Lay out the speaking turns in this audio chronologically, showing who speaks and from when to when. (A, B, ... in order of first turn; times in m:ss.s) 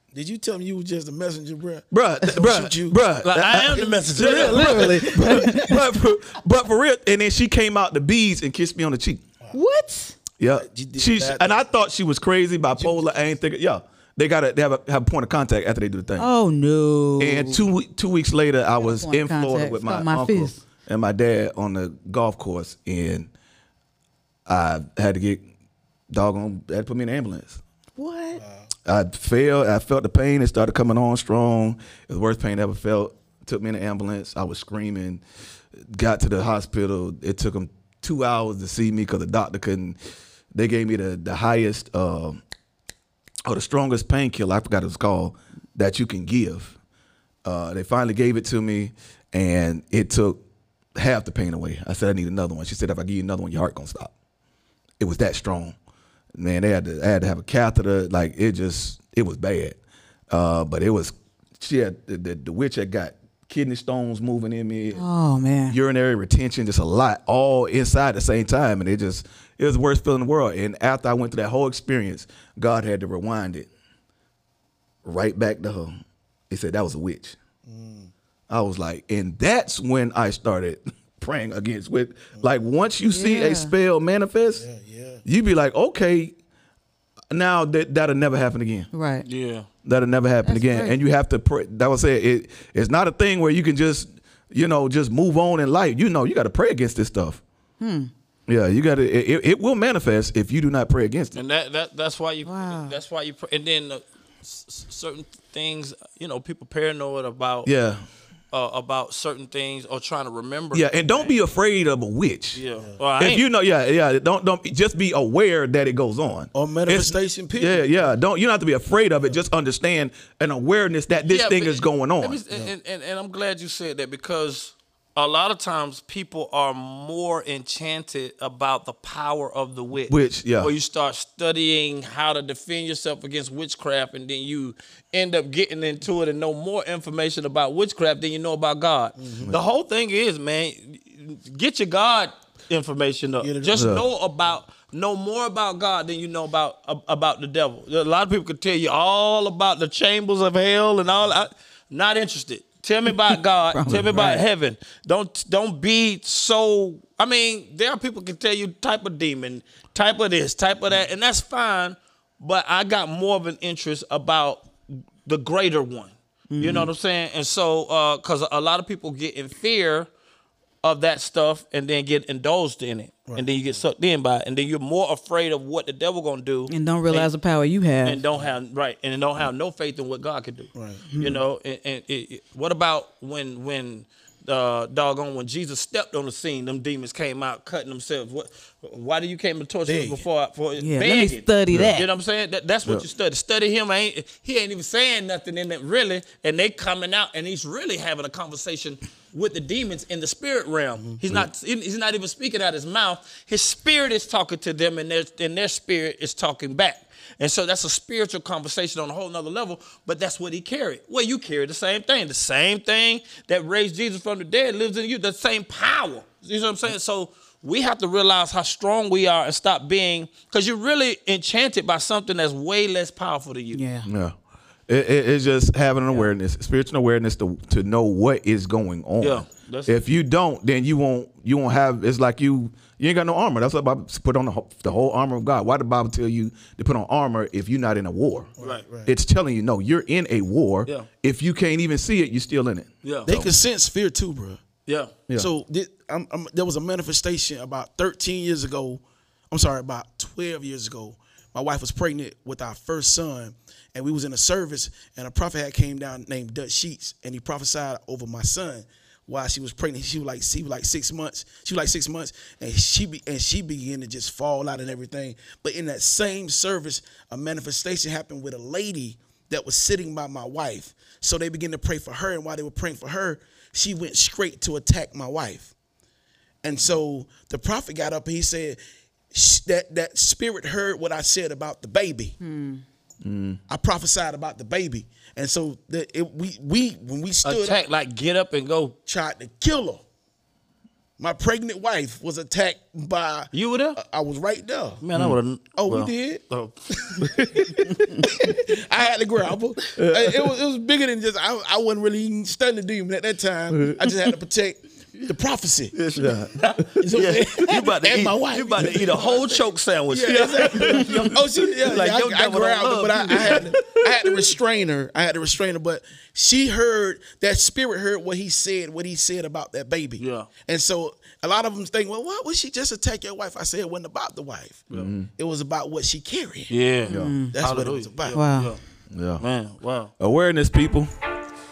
0:00.1-0:03.0 A
0:01.9-0:09.2 B
0:03.2-0:05.3 C
0:03.5-0:05.8 A
0:04.2-0:05.7 D
0:09.5-0:10.2 D
0:10.4-0:16.3 B
0:10.5-0:11.6 A
0:12.8-0:13.3 A
0:16.2-0:17.6 D
0:17.2-0:23.3 B
0:18.8-0:20.6 D
0:24.5-0:25.4 B
0:26.1-0:27.6 B
0:28.0-0:28.4 D
0:28.3-0:28.7 A
0:28.8-0:35.2 B
0:35.8-0:40.0 B
0:40.5-0:42.4 B
0:43.4-0:46.8 B
0:47.4-0:50.4 B
0:51.0-0:54.1 B
0:55.0-0:55.8 B
0:56.3-0:59.8 B
1:00.3-1:05.0 B
1:04.9-1:05.8 D
1:05.7-1:13.7 B
1:15.0-1:16.0 B
1:16.5-1:17.4 B
1:17.6-1:18.1 A
1:18.5-1:24.6 B
1:23.1-1:23.7 D
1:24.6-1:25.2 A
1:25.2-1:26.3 B
1:27.3-1:28.9 B
1:28.9-1:29.2 D
1:29.2-1:29.7 C
1:29.8-1:37.4 B
1:30.4-1:30.9 D
1:37.8-1:38.1 D
1:38.5-1:41.4 B
1:41.3-1:47.7 C
1:42.4-1:43.0 D
1:47.6-1:48.0 B
1:48.5-1:51.4 C
1:50.7-1:52.6 B
1:52.5-1:53.4 C
1:53.2-2:02.4 B
1:56.5-1:58.1 A
2:01.2-2:44.7 C
2:10.1-2:10.7 B
2:19.2-2:19.5 A
2:23.4-2:23.9 A
2:23.7-2:24.0 B
2:33.7-2:34.4 D
2:33.9-2:34.2 B
2:45.2-2:50.1 C
2:46.5-2:46.9 D
2:50.8-2:57.3 C
2:53.3-2:53.8 A
2:56.7-2:58.2 D
2:58.0-3:43.8 C
3:00.7-3:01.1 A
3:01.1-3:01.4 D
3:09.8-3:10.2 A
3:10.8-3:12.1 D
3:11.7-3:12.0 B
3:43.7-3:44.1 D
3:44.0-3:44.3 B
3:44.9-3:58.5 B
3:49.2-3:50.0 C
3:58.6-3:59.1 A
3:58.6-3:58.8 C
3:59.0-4:03.5 B
4:03.0-4:03.3 C
4:03.2-4:04.6 A
4:04.8-4:05.1 C
4:05.3-4:35.7 A
4:36.6-4:38.8 A
4:39.3-4:42.3 A
4:42.4-4:42.8 D
4:43.2-4:43.6 B
4:43.7-4:47.8 A
4:47.4-4:49.0 C
4:49.0-4:50.0 A
4:51.2-4:55.0 A
4:53.5-4:54.0 C
4:55.0-4:57.2 C
4:55.7-4:56.4 A
4:57.0-5:05.9 A
4:57.2-4:58.3 B
5:00.0-5:00.5 B
5:06.0-5:13.6 C
5:06.0-5:06.8 B
5:07.0-5:26.7 A
5:10.3-5:11.7 B
5:13.2-5:14.4 B
5:20.2-5:20.5 C
5:24.9-5:25.3 B
5:26.7-5:28.8 C
5:27.1-5:27.4 B
5:27.1-5:27.5 D
5:27.5-5:28.4 A
5:28.3-5:28.7 D
5:29.1-5:29.4 B
5:29.4-5:30.1 C
5:30.2-5:31.1 B